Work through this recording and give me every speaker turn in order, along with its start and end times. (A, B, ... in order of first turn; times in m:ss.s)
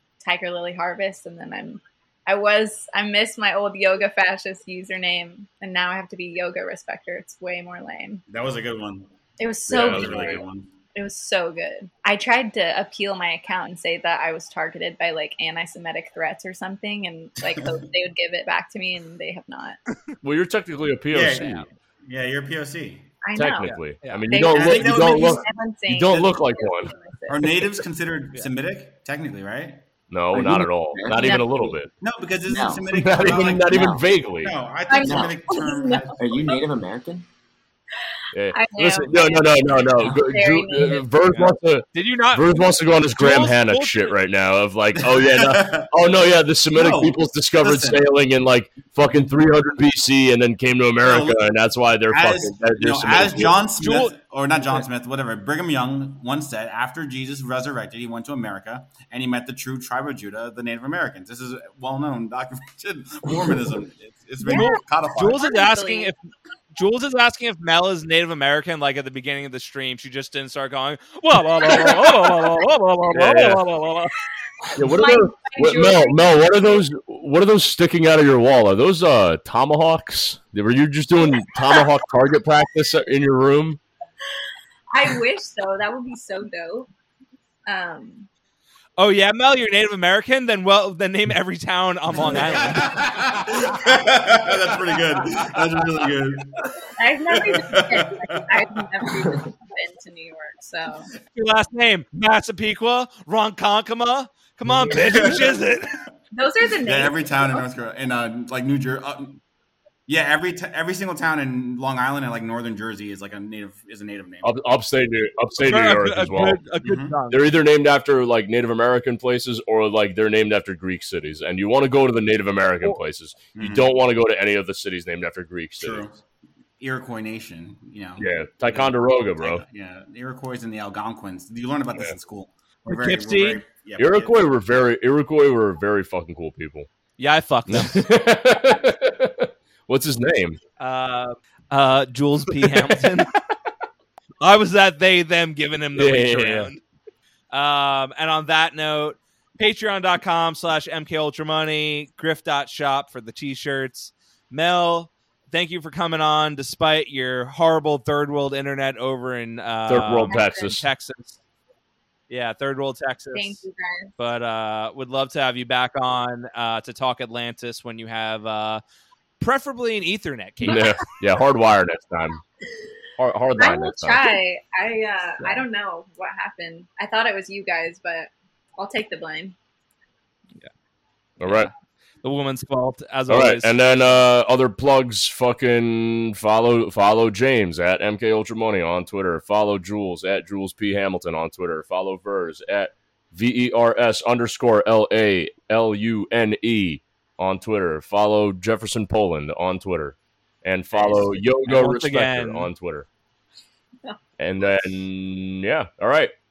0:00.2-0:08.2 A
0:08.3-0:09.1 B
0:09.4-0:10.4 A
0:09.7-0:10.7 B
0:09.7-0:10.4 C
0:10.9-0:19.8 A
0:20.2-0:21.7 C
0:21.1-0:23.1 B
0:23.2-0:27.7 A
0:23.4-0:26.9 C
0:24.5-0:25.4 B
0:26.1-0:26.4 B
0:27.3-0:29.8 B
0:30.1-0:31.9 C
0:30.3-0:31.8 D
0:31.1-0:31.4 A
0:32.0-0:36.6 B
0:32.5-0:32.9 D
0:32.9-0:34.6 C
0:33.7-0:34.0 D
0:34.9-0:36.6 A
0:35.0-0:35.3 D
0:36.2-0:37.2 D
0:38.3-0:53.6 C
0:38.5-0:41.1 A
0:41.2-0:44.1 E
0:45.0-0:45.9 B
0:46.7-0:48.0 B
0:51.0-0:51.5 B
0:52.1-1:05.5 B
0:53.8-0:54.2 E
1:04.4-1:06.1 A
1:04.5-1:06.2 E
1:06.7-1:14.2 E
1:13.1-1:13.6 C
1:14.7-1:16.5 A
1:14.8-1:23.8 C
1:21.5-1:21.8 A
1:24.9-1:26.9 A
1:27.6-1:28.3 A
1:29.0-1:33.2 E
1:32.5-1:38.5 B
1:35.2-1:35.6 E
1:37.0-1:41.1 A
1:41.3-1:45.9 E
1:44.9-1:45.6 B
1:46.3-1:47.6 A
1:46.8-1:49.4 B
1:50.1-1:54.6 B
1:54.4-1:56.6 C
1:55.6-1:57.4 E
1:56.8-1:57.2 B
1:57.3-2:06.0 C
2:03.6-2:03.9 B
2:05.8-2:06.2 B
2:06.8-2:14.4 B
2:08.2-2:09.6 C
2:12.9-2:13.6 E
2:14.0-2:16.9 C
2:17.2-2:18.1 E
2:17.7-2:20.6 C
2:20.8-2:23.3 E
2:24.4-2:26.8 E
2:26.0-2:26.7 C
2:27.5-2:41.4 E
2:39.9-2:40.8 C
2:40.2-2:40.7 A
2:42.3-2:43.6 E
2:43.3-2:44.3 A
2:44.2-2:48.8 E
2:49.4-2:51.0 E
2:50.6-2:52.4 C
2:53.2-2:54.3 C
2:53.6-2:59.6 A
3:01.4-3:01.7 C
3:01.4-3:01.7 E
3:02.2-3:03.7 E
3:03.3-3:23.1 C
3:20.9-3:21.2 D
3:21.1-3:22.7 E
3:24.4-3:26.3 C